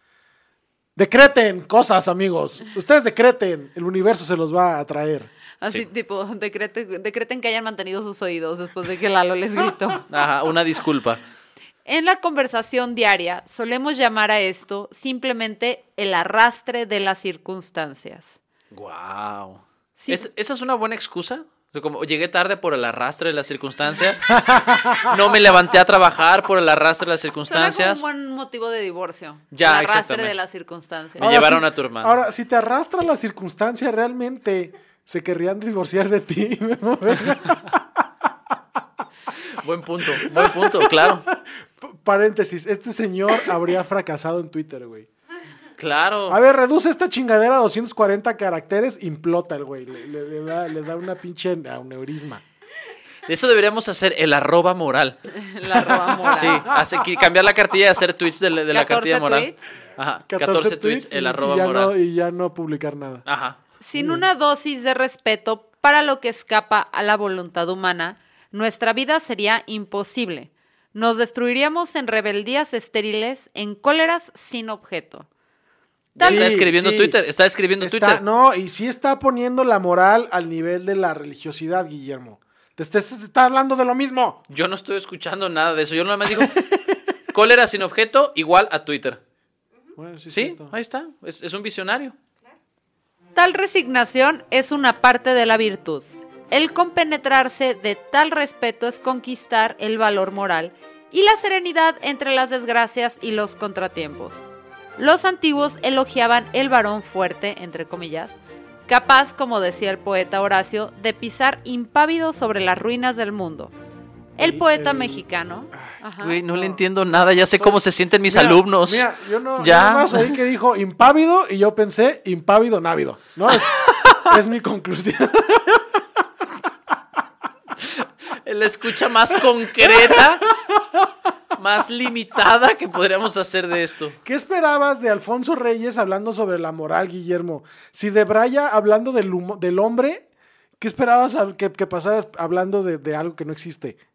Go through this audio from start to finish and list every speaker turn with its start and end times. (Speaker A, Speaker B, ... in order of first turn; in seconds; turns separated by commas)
Speaker A: 0.9-5.3, Speaker B: 5.6-10.0, Speaker C: 10.1-11.2, Speaker B: 11.8-18.4, Speaker C: 18.7-24.3, Speaker B: 20.0-20.3, Speaker A: 24.3-25.2, Speaker C: 25.0-28.0, Speaker B: 27.5-31.2, Speaker C: 29.5-30.3, Speaker C: 31.2-32.2, Speaker A: 31.2-37.8, Speaker C: 39.6-41.2, Speaker A: 40.1-45.1, Speaker C: 45.8-46.4, Speaker A: 46.3-52.4, Speaker C: 53.2-55.2, Speaker B: 55.3-56.6, Speaker C: 55.7-61.9, Speaker B: 58.7-59.6, Speaker A: 60.3-63.2, Speaker C: 63.2-63.6, Speaker B: 63.8-75.3, Speaker A: 63.9-64.3, Speaker A: 76.1-77.2, Speaker B: 76.2-76.5, Speaker C: 76.2-78.2, Speaker A: 77.8-84.4, Speaker C: 84.5-86.7, Speaker A: 86.3-86.9, Speaker C: 87.3-89.2, Speaker A: 89.9-90.8, Speaker C: 90.3-92.2, Speaker B: 93.3-104.4, Speaker B: 105.0-113.7, Speaker A: 114.3-116.8, Speaker B: 114.4-116.4, Speaker C: 116.2-120.4, Speaker A: 117.5-126.0, Speaker C: 123.6-124.3, Speaker C: 127.8-130.5, Speaker A: 129.8-131.0, Speaker C: 131.5-134.2, Speaker A: 134.2-140.2, Speaker A: 140.8-144.0